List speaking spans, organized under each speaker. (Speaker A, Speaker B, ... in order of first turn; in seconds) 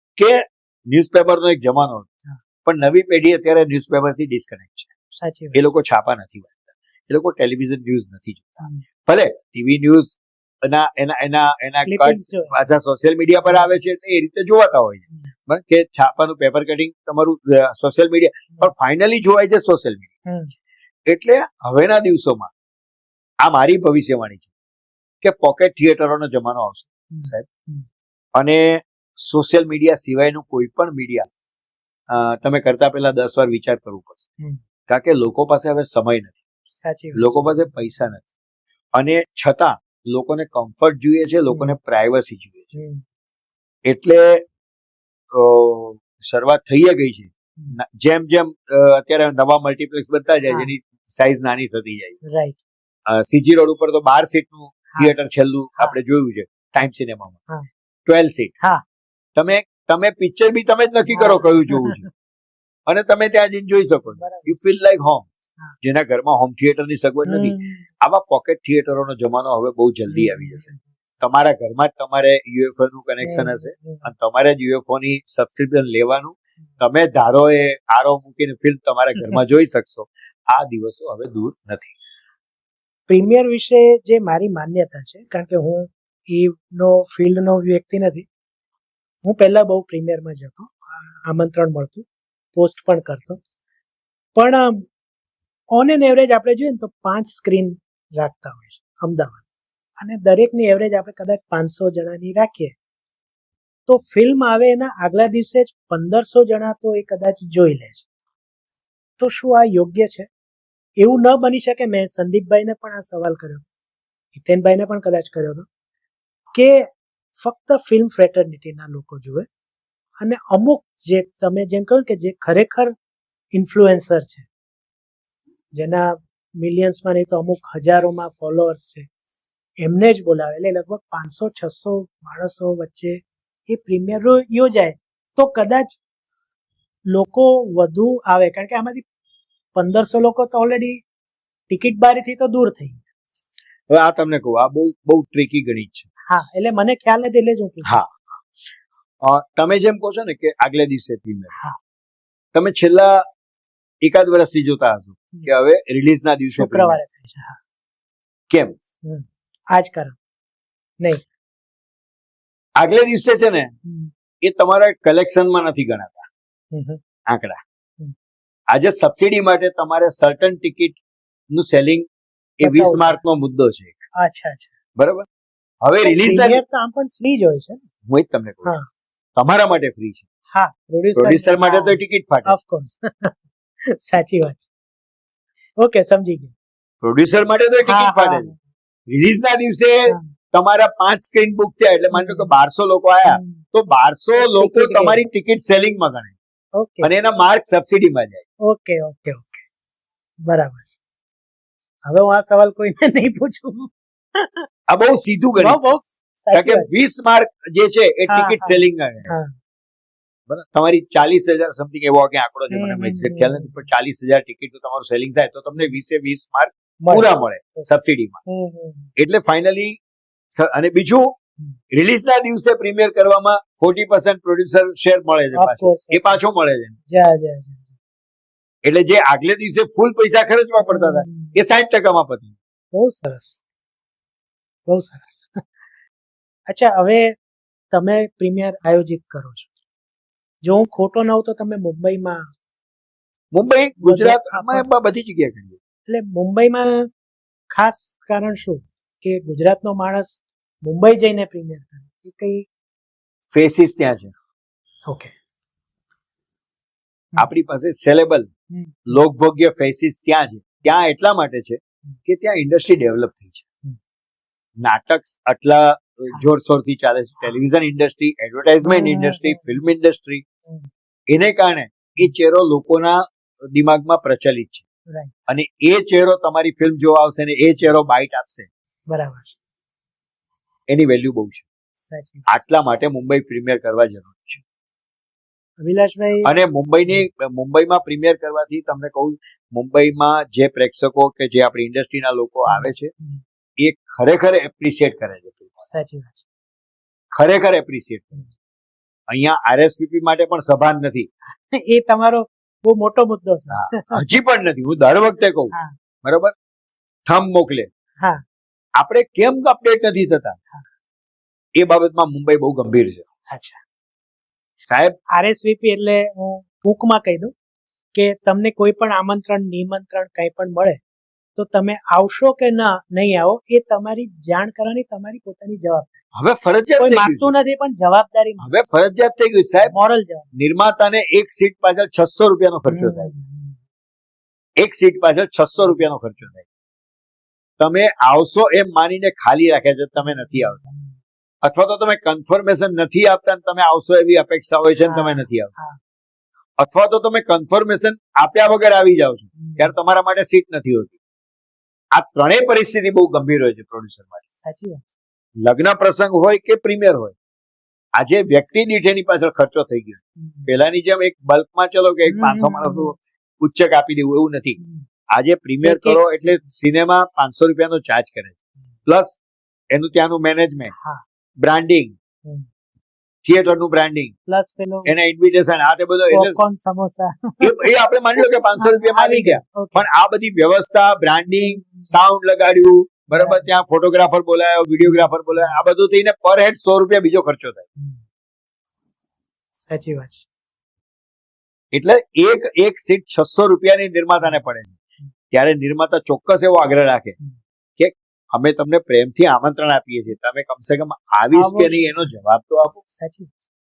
Speaker A: 0.2-2.1, 2.6-4.9, 5.5-20.1, 21.1-22.5, 23.4-24.5, 25.2-27.5, 28.4-31.3, 32.1-34.3, 34.9-36.4, 37.1-38.2, 39.0-42.7, 43.9-44.4, 45.3-52.2, 53.1-57.4, 58.1-58.5, 59.4-62.1, 62.9-65.3, 65.8-70.7, 71.2-81.9, 143.9-146.1, 147.8-148.4, 149.2-151.5, 152.5-153.3, 154.0-157.0, 158.5-158.8, 162.8-163.8, 164.4-166.3, 167.3-167.6, 168.7-171.0, 171.5-172.1, 172.6-174.0, 175.0-175.3, 175.8-176.6, 178.1-178.7, 179.4-180.2, 181.2-182.5, 187.0-188.5, 189.1-196.3, 197.0-198.5, 204.9-206.0, 206.5-209.3, 210.5-218.4, 219.2-220.0, 220.5-221.3, 221.9-227.0, 228.8-232.5, 243.5-245.8, 253.5-254.3, 257.4-258.5, 259.1-263.6, 264.8-270.4, 271.3-274.8, 275.5-278.7, 280.9-281.6, 282.5-284.6, 286.4-293.1, 293.8-295.9, 297.3-298.5, 299.3-301.3, 303.7-305.7, 306.2-306.5, 307.3-307.9, 309.0-310.6, 311.8-313.2, 314.8-315.2, 326.4-327.5, 328.6-329.9, 330.5-333.3, 334.8-336.6, 337.8-340.8, 341.6-345.7, 346.8-351.1, 352.1-354.4, 355.6-357.3, 358.2-364.8, 365.3-368.6, 369.1-369.4, 369.9-370.9, 371.6-372.1, 373.4-374.4, 375.1-376.6, 377.6-387.9, 391.9-394.9, 395.5-397.4, 398.0-403.0
Speaker B: 5.2-5.7, 11.9-12.5, 20.3-20.5, 27.1-27.9, 36.8-37.6, 41.5-41.8, 42.7-43.0, 52.3-52.6, 61.1-62.1, 64.2-64.6, 67.3-67.9, 70.1-70.8, 73.2-74.1, 83.1-88.3, 89.2-93.4, 94.4-94.9, 95.7-99.4, 100.0-102.8, 103.9-108.1, 109.2-110.3, 111.0-113.7, 114.3-115.7, 116.5-116.9, 117.4-119.5, 120.2-122.9, 123.5-124.5, 125.8-129.1, 129.8-136.0, 137.1-139.0, 139.8-141.0, 141.7-143.0, 146.3-148.0, 156.6-157.6, 159.0-160.2, 163.8-164.1, 166.7-167.0, 172.6-173.2, 174.2-174.7, 176.0-177.8, 180.5-183.4, 183.9-184.7, 185.8-186.5, 187.9-188.6, 192.1-192.5, 193.3-193.6, 194.4-195.2, 196.8-197.1, 198.6-199.6, 200.5-200.9, 202.1-204.7, 205.6-206.9, 208.3-209.5, 212.7-213.7, 217.0-217.9, 218.5-219.1, 225.6-226.5, 227.1-227.9, 230.9-231.6, 232.9-233.6, 234.9-235.6, 236.7-237.3, 237.9-239.7, 240.6-242.5, 244.0-244.9, 246.1-247.1, 247.7-252.7, 258.7-259.1, 268.8-269.7, 279.1-279.6, 282.0-282.6, 285.8-286.5, 292.7-293.4, 295.9-296.4, 301.5-304.2, 313.5-313.8, 315.3-317.5, 318.1-321.0, 321.6-326.1, 327.0-328.7, 329.9-330.5, 332.9-333.8, 335.8-336.1, 340.2-341.1, 345.1-346.0, 349.6-349.9, 354.6-355.1, 360.4-360.7, 362.3-363.1, 364.8-365.1, 365.8-366.6, 370.9-371.2, 374.5-375.1, 376.3-377.9, 378.8-380.1, 383.3-383.7, 385.0-385.8, 389.8-390.4, 401.5-402.3, 403.1-403.6